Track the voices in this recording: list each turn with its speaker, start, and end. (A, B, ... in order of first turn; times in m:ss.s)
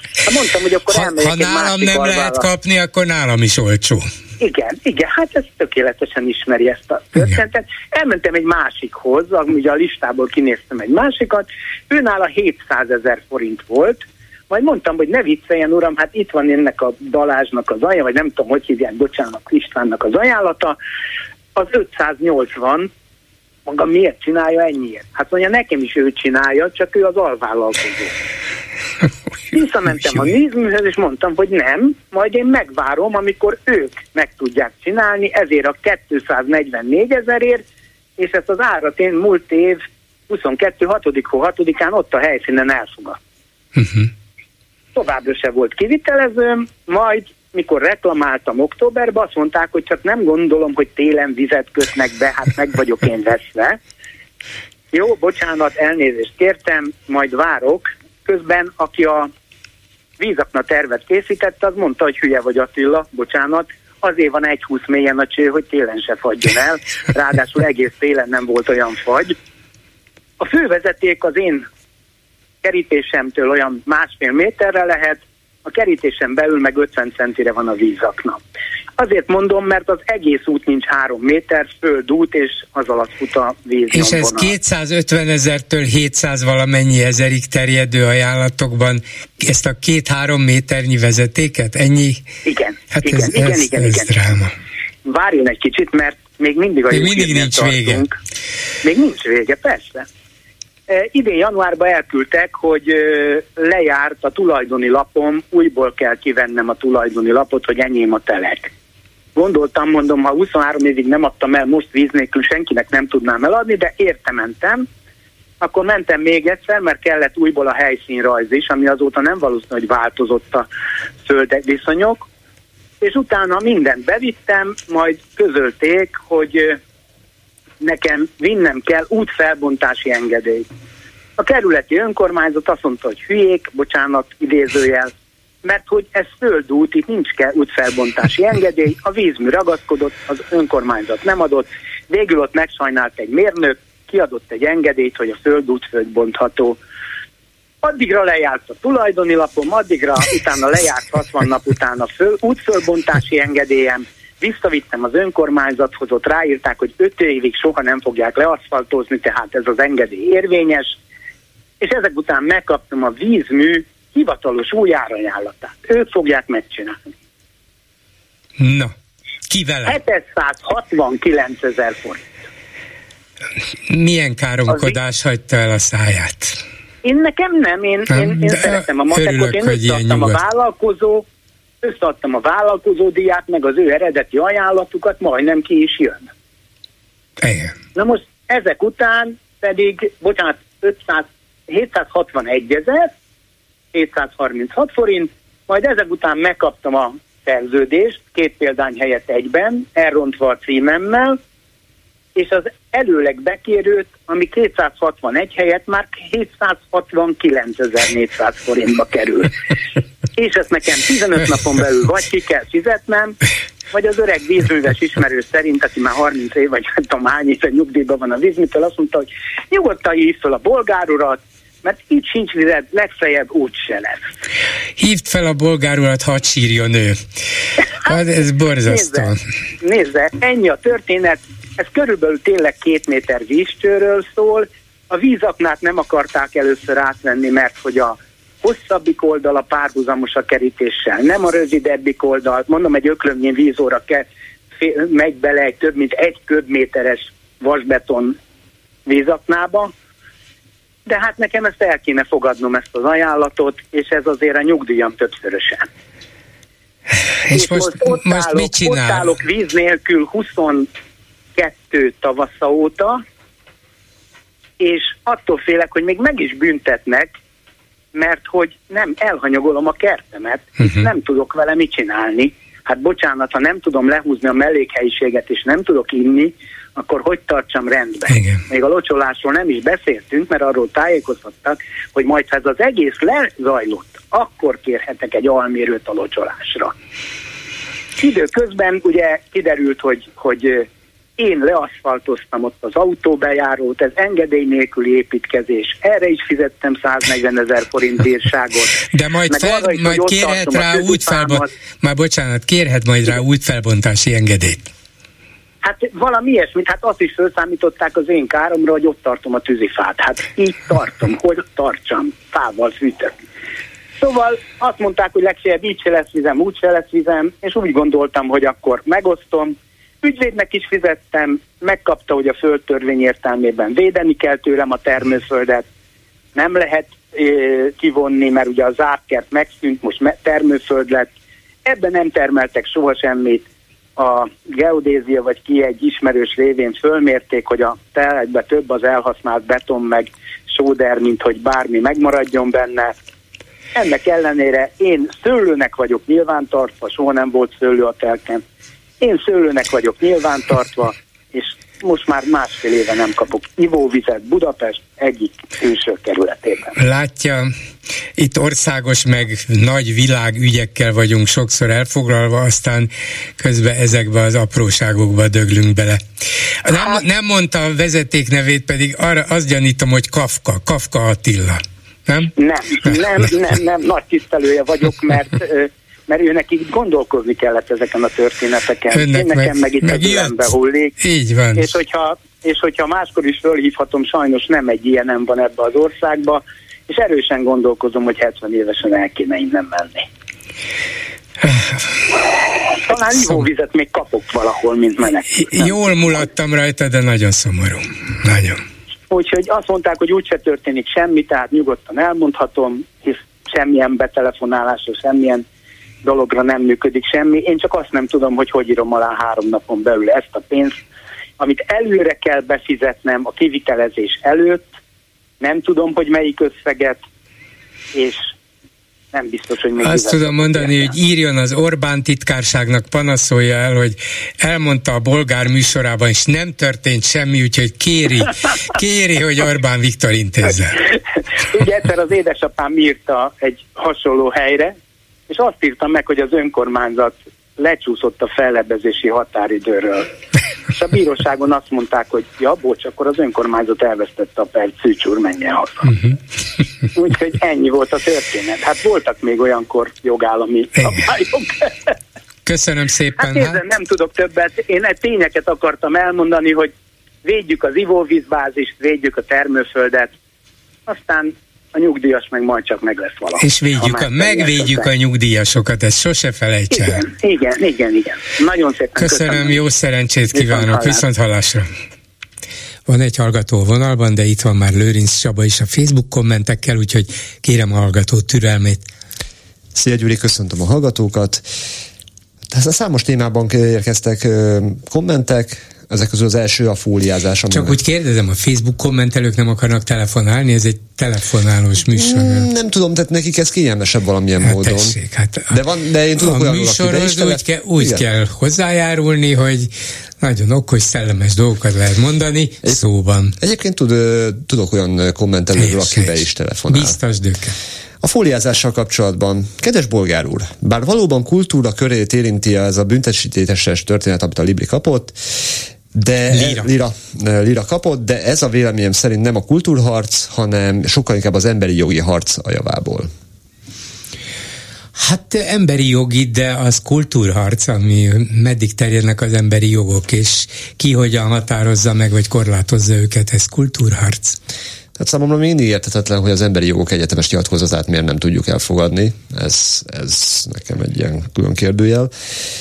0:00.2-0:02.4 A
0:00.9-0:04.0 B
0:04.4-0:20.8 A
0:21.6-0:22.9 A
0:23.7-0:28.2 A
0:29.5-0:37.6 A
0:38.2-0:43.2 A
0:43.8-0:44.1 B
0:44.9-0:53.8 A
0:54.9-0:59.3 A
1:00.2-1:09.4 A
1:10.4-1:11.6 A
1:12.6-1:18.4 A
1:19.0-1:24.5 A
1:23.9-1:32.2 B
1:32.4-1:34.2 A
1:32.9-1:34.5 B
1:35.0-1:38.1 A
1:36.9-1:38.0 B
1:38.8-1:40.0 A
1:40.9-1:48.7 A
1:49.4-1:54.8 A
1:55.6-2:00.7 A
2:01.2-2:02.2 A
2:03.0-2:06.8 A
2:07.8-2:10.6 A
2:11.4-2:15.1 A
2:15.6-2:26.8 A
2:27.8-2:41.0 A
2:41.8-2:47.1 A
2:48.6-2:48.9 B
2:49.5-2:50.0 B
2:49.8-2:52.2 A
2:53.9-2:56.6 B
2:57.0-3:01.2 A
2:58.1-3:00.4 B
3:01.8-3:06.3 A
3:07.4-3:07.7 B
3:08.0-3:13.1 A
3:13.9-3:21.4 A
3:22.4-3:29.5 A
3:30.4-3:33.4 A
3:33.9-3:44.2 A
3:45.0-3:47.2 B
3:48.0-3:49.4 B
3:48.8-4:04.2 A
4:04.8-4:08.4 A
4:09.0-4:09.9 A
4:11.0-4:15.9 A
4:17.5-4:19.4 B
4:17.5-4:20.9 A
4:21.6-4:23.2 A
4:24.8-4:27.3 A
4:28.1-4:46.9 A
4:38.3-4:38.6 B
4:48.2-4:50.9 A
4:51.4-5:01.7 A
4:59.1-5:04.9 B
5:05.8-5:13.3 A
5:14.2-5:25.8 A
5:26.5-5:31.3 A
5:31.8-5:33.6 A
5:34.2-5:43.1 A
5:44.0-5:48.6 A
5:49.2-5:56.9 A
5:57.0-5:57.7 B
5:58.4-6:06.2 B
6:06.8-6:13.2 B
6:06.9-6:07.2 A
6:12.6-6:21.1 A
6:19.1-6:20.6 B
6:21.2-6:21.9 B
6:21.8-6:30.3 A
6:31.6-6:32.1 B
6:33.0-6:36.0 A
6:33.4-6:33.6 B
6:35.5-6:38.8 B
6:39.3-6:45.6 A
6:46.2-6:51.0 A
6:51.6-6:54.9 A
6:55.6-6:57.2 A
6:58.1-6:58.5 A
6:59.3-7:01.1 A
7:00.0-7:11.0 B
7:11.6-7:14.9 A
7:15.5-7:20.3 A
7:20.9-7:26.1 A
7:27.2-7:31.9 A
7:32.6-7:33.8 B
7:33.4-7:36.9 A
7:37.4-7:40.3 A
7:41.1-7:45.1 A
7:43.6-7:47.2 B
7:46.9-7:49.8 A
7:49.2-7:51.9 B
7:50.5-7:51.2 A
7:53.1-7:59.0 B
7:59.9-8:01.6 C
8:02.7-8:08.0 C
8:07.7-8:12.7 B
8:12.1-8:18.2 C
8:14.6-8:15.7 B
8:16.4-8:23.5 B
8:23.6-8:27.2 C
8:25.8-8:27.7 B
8:28.2-8:35.6 C
8:36.1-8:43.3 C
8:36.5-8:36.9 B
8:45.2-8:54.6 B
8:55.2-9:02.3 C